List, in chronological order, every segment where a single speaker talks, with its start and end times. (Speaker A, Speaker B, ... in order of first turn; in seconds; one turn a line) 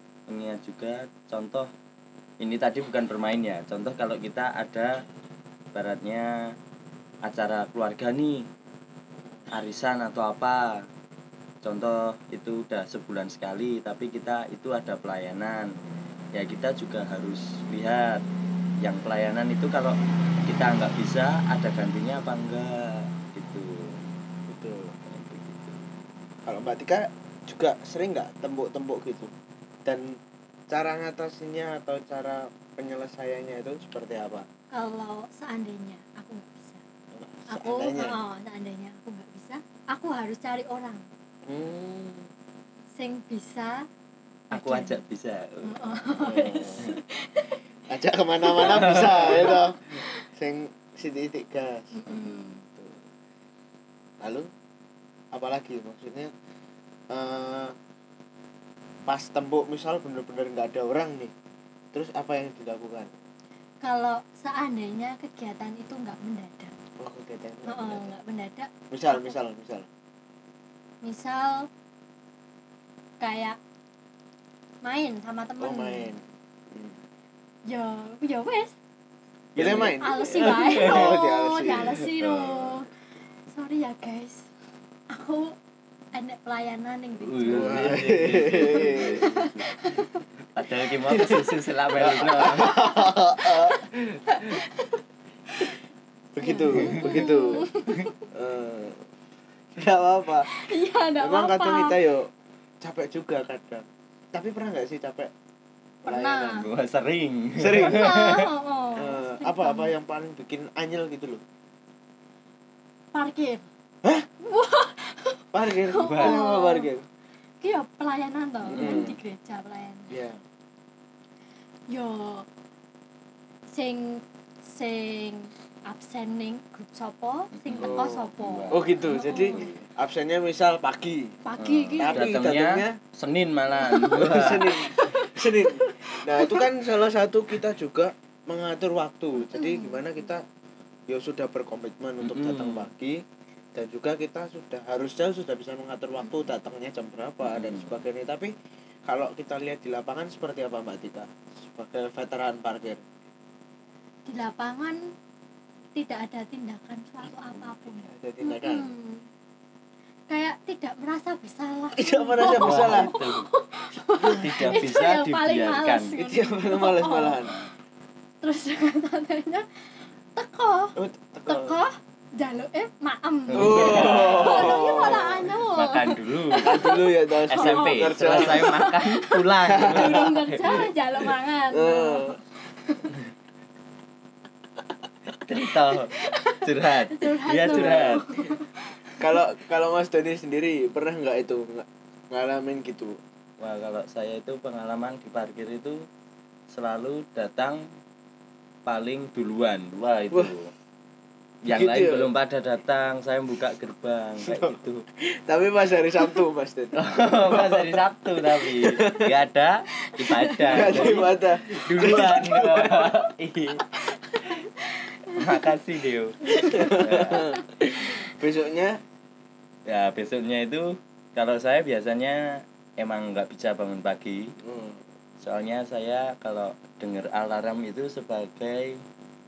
Speaker A: 0.3-1.7
Speaker A: 2.4-5.0
Speaker A: 5.7-6.5
Speaker A: 7.2-8.5
Speaker A: 9.5-10.9
Speaker A: 11.6-15.7
Speaker A: 16.4-18.2
Speaker A: 18.8-24.0
Speaker B: 24.5-25.0
Speaker A: 25.1-25.8
Speaker B: 26.5-29.3
Speaker B: 29.9-30.2
Speaker B: 30.7-34.5
Speaker C: 34.7-36.8
Speaker B: 37.1-38.2
Speaker C: 37.5-41.1
Speaker B: 41.5-42.3
Speaker C: 43.0-43.9
Speaker A: 44.5-45.8
Speaker C: 44.5-45.0
Speaker C: 45.6-47.6
Speaker B: 46.2-46.9
Speaker B: 47.9-53.0
Speaker C: 48.4-50.1
Speaker A: 48.7-49.3
Speaker C: 51.9-52.6
Speaker B: 54.2-54.5
Speaker B: 55.3-56.3
Speaker B: 57.1-57.8
Speaker B: 59.1-61.3
Speaker B: 61.9-63.1
Speaker C: 63.8-66.8
Speaker B: 67.0-68.1
Speaker C: 67.7-69.3
Speaker B: 68.9-69.9
Speaker C: 71.0-71.7
Speaker C: 73.2-73.6
Speaker C: 74.8-76.1
Speaker B: 75.6-77.0
Speaker C: 77.7-78.8
Speaker A: 79.6-81.2
Speaker B: 79.6-82.0
Speaker C: 79.7-82.9
Speaker A: 82.0-82.8
Speaker C: 83.5-84.5
Speaker C: 85.1-85.6
Speaker C: 86.1-90.2
Speaker A: 87.2-90.0
Speaker B: 87.5-89.3
Speaker A: 90.5-92.9
Speaker B: 91.1-94.0
Speaker C: 92.7-95.0
Speaker B: 96.3-97.7
Speaker C: 96.4-98.2
Speaker A: 96.7-97.2
Speaker B: 98.3-99.0
Speaker B: 99.8-100.5
Speaker C: 100.5-102.0
Speaker B: 101.2-105.3
Speaker C: 106.0-106.7
Speaker B: 106.1-106.7
Speaker A: 106.6-108.5
Speaker B: 107.6-108.3
Speaker C: 107.8-109.9
Speaker B: 109.0-111.4
Speaker C: 113.1-113.7
Speaker C: 114.4-116.9
Speaker B: 115.5-117.1
Speaker A: 116.0-116.4
Speaker C: 117.6-120.1
Speaker A: 118.7-119.1
Speaker B: 118.8-119.2
Speaker B: 120.1-120.4
Speaker C: 121.9-122.5
Speaker C: 123.7-129.7
Speaker A: 127.5-129.9
Speaker B: 127.8-131.4
Speaker C: 131.4-132.4
Speaker A: 131.6-134.8
Speaker B: 132.0-133.0
Speaker C: 133.8-136.7
Speaker B: 134.1-140.4
Speaker C: 139.4-140.0
Speaker B: 141.1-143.2
Speaker A: 142.2-142.9
Speaker B: 143.8-148.5
Speaker A: 147.5-148.0
Speaker B: 149.1-153.0
Speaker C: 154.3-155.0
Speaker C: 155.9-159.3
Speaker B: 158.1-158.9
Speaker C: 160.3-167.4
Speaker B: 161.9-163.2
Speaker A: 162.4-163.5
Speaker B: 164.2-164.9
Speaker A: 164.4-166.2
Speaker B: 166.2-167.6
Speaker C: 168.4-183.2
Speaker B: 171.0-171.8
Speaker A: 173.5-176.9
Speaker B: 173.6-175.5
Speaker B: 176.6-178.9
Speaker A: 177.5-180.9
Speaker B: 179.7-180.8
Speaker B: 181.7-182.4
Speaker A: 185.4-188.2
Speaker C: 185.5-189.2
Speaker B: 187.7-188.2
Speaker B: 189.2-193.2
Speaker A: 193.6-196.0
Speaker A: 196.7-197.9
Speaker A: 198.9-200.7
Speaker A: 201.7-205.1
Speaker B: 201.7-202.3
Speaker B: 204.4-204.8
Speaker B: 205.3-209.3
Speaker A: 207.0-213.8
Speaker C: 210.1-211.2
Speaker B: 210.7-213.3
Speaker C: 214.2-214.7
Speaker C: 215.2-215.7
Speaker A: 215.3-217.5
Speaker C: 216.5-217.6
Speaker B: 216.6-219.0
Speaker A: 219.9-224.6
Speaker B: 224.6-225.0
Speaker A: 225.4-229.0